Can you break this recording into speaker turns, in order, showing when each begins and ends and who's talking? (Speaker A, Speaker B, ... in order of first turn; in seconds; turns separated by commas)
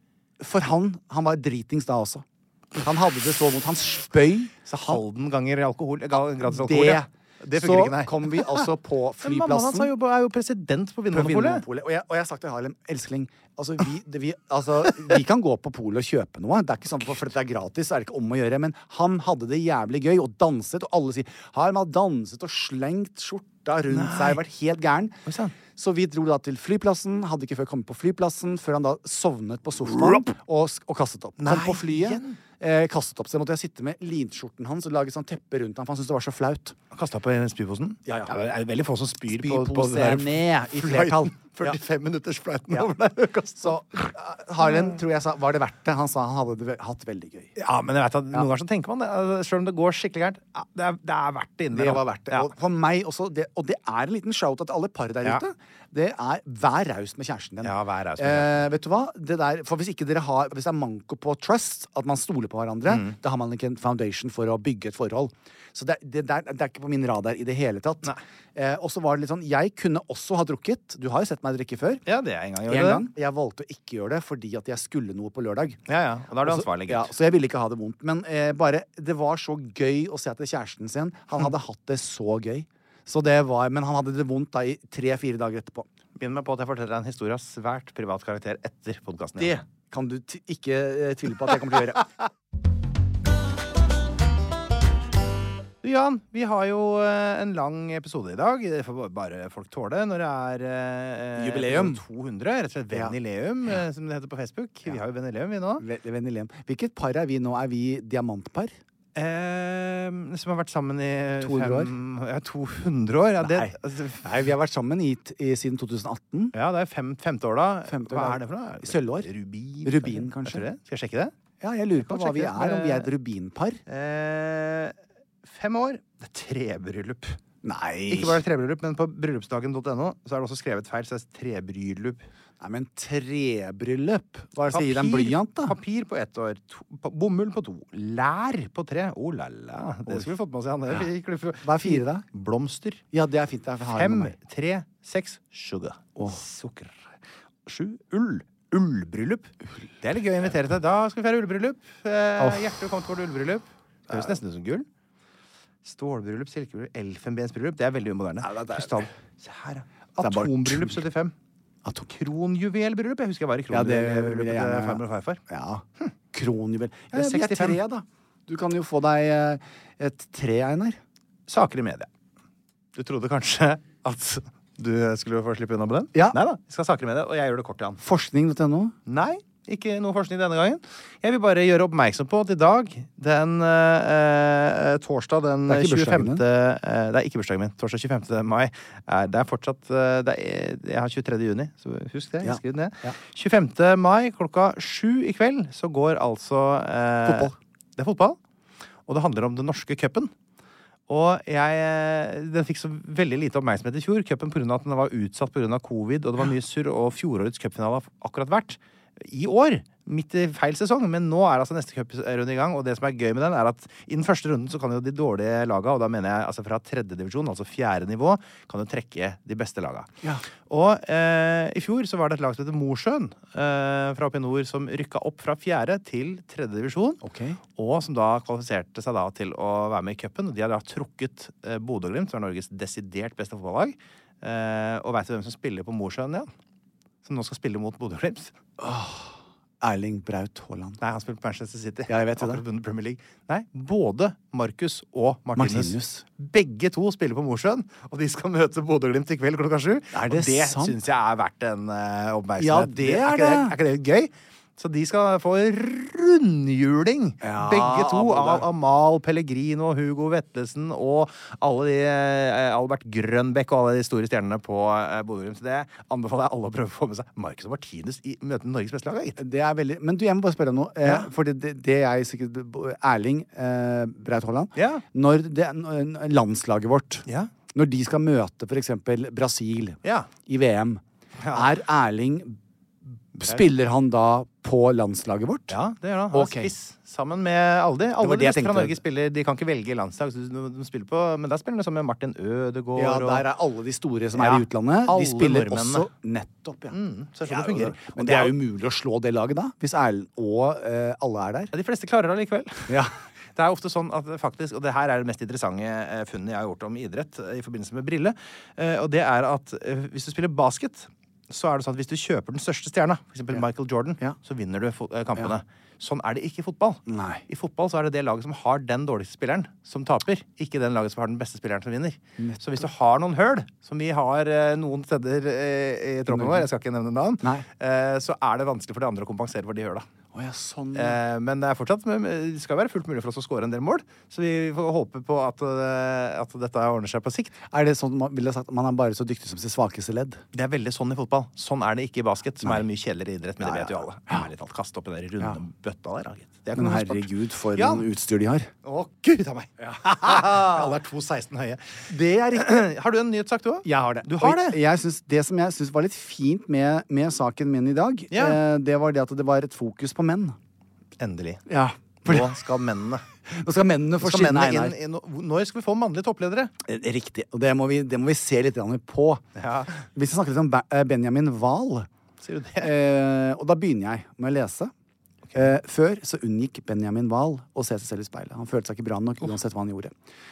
Speaker A: 0.4-5.0, Speaker B: 4.7-8.7, Speaker A: 6.5-9.9, Speaker B: 9.2-11.6, Speaker A: 11.1-25.2, Speaker B: 23.9-24.4, Speaker B: 25.2-25.6, Speaker A: 25.7-36.8, Speaker B: 30.0-30.2, Speaker B: 31.4-32.4, Speaker B: 36.9-44.1, Speaker A: 38.0-38.3, Speaker A: 39.3-41.8, Speaker A: 43.6-47.5, Speaker B: 47.6-52.5, Speaker A: 51.7-72.0, Speaker B: 57.6-58.6, Speaker B: 62.9-63.1, Speaker B: 72.1-73.1, Speaker A: 72.7-75.8, Speaker B: 75.9-77.1, Speaker A: 76.4-85.9, Speaker B: 86.2-89.6, Speaker A: 89.4-92.1, Speaker B: 95.8-105.8, Speaker A: 101.3-102.0, Speaker A: 102.9-103.2, Speaker A: 105.8-108.8, Speaker B: 109.1-114.3, Speaker A: 111.4-111.9, Speaker A: 113.4-116.5, Speaker B: 116.5-121.3, Speaker A: 117.9-119.3, Speaker A: 119.8-120.6, Speaker A: 121.6-123.8, Speaker B: 122.0-123.1, Speaker B: 123.9-127.4, Speaker A: 127.6-128.4, Speaker B: 128.1-132.3, Speaker A: 132.6-135.8, Speaker B: 134.7-143.0, Speaker A: 141.6-142.2, Speaker A: 143.1-144.3, Speaker B: 143.9-147.1, Speaker B: 147.7-154.8, Speaker A: 152.4-152.6, Speaker B: 155.8-161.3, Speaker A: 158.4-159.1, Speaker A: 160.2-161.0, Speaker B: 162.1-165.4, Speaker A: 163.7-171.0, Speaker B: 167.1-167.8, Speaker B: 171.5-172.1, Speaker B: 172.9-178.0, Speaker A: 178.0-178.9, Speaker B: 179.1-198.4, Speaker A: 185.7-186.4, Speaker A: 192.4-193.2, Speaker A: 197.2-197.5, Speaker B: 199.1-200.3, Speaker B: 201.1-220.1, Speaker B: 220.7-227.2, Speaker A: 227.2-227.6, Speaker B: 227.7-236.5, Speaker B: 237.2-238.5, Speaker A: 238.8-241.0, Speaker B: 241.0-269.4, Speaker A: 242.1-242.6, Speaker A: 245.6-246.2, Speaker A: 250.1-251.0, Speaker A: 252.6-253.8, Speaker A: 257.4-258.7, Speaker A: 269.4-282.6, Speaker B: 271.0-271.3, Speaker B: 274.8-275.0, Speaker B: 280.0-280.3, Speaker B: 281.4-281.7, Speaker A: 283.3-285.8, Speaker B: 285.7-293.4, Speaker A: 286.3-286.7, Speaker A: 288.2-289.0, Speaker A: 292.9-301.7, Speaker B: 294.4-296.1, Speaker B: 296.9-298.5, Speaker B: 301.7-303.0, Speaker A: 302.9-303.1, Speaker B: 303.6-330.1, Speaker A: 317.1-317.4, Speaker A: 326.3-326.7, Speaker A: 330.3-331.2, Speaker B: 330.9-337.6, Speaker A: 337.7-340.4, Speaker B: 340.5-348.1, Speaker A: 343.6-344.4, Speaker A: 346.8-348.7, Speaker B: 348.8-354.8, Speaker A: 349.8-350.9, Speaker A: 352.1-352.9, Speaker A: 353.8-360.6, Speaker B: 358.3-358.6, Speaker B: 361.2-361.6, Speaker A: 361.7-362.6, Speaker B: 362.2-363.2, Speaker A: 363.5-364.9, Speaker B: 364.2-366.7, Speaker A: 366.8-369.4, Speaker B: 369.6-370.0, Speaker A: 370.1-372.1, Speaker B: 372.4-372.9, Speaker A: 372.8-374.9, Speaker A: 375.5-380.1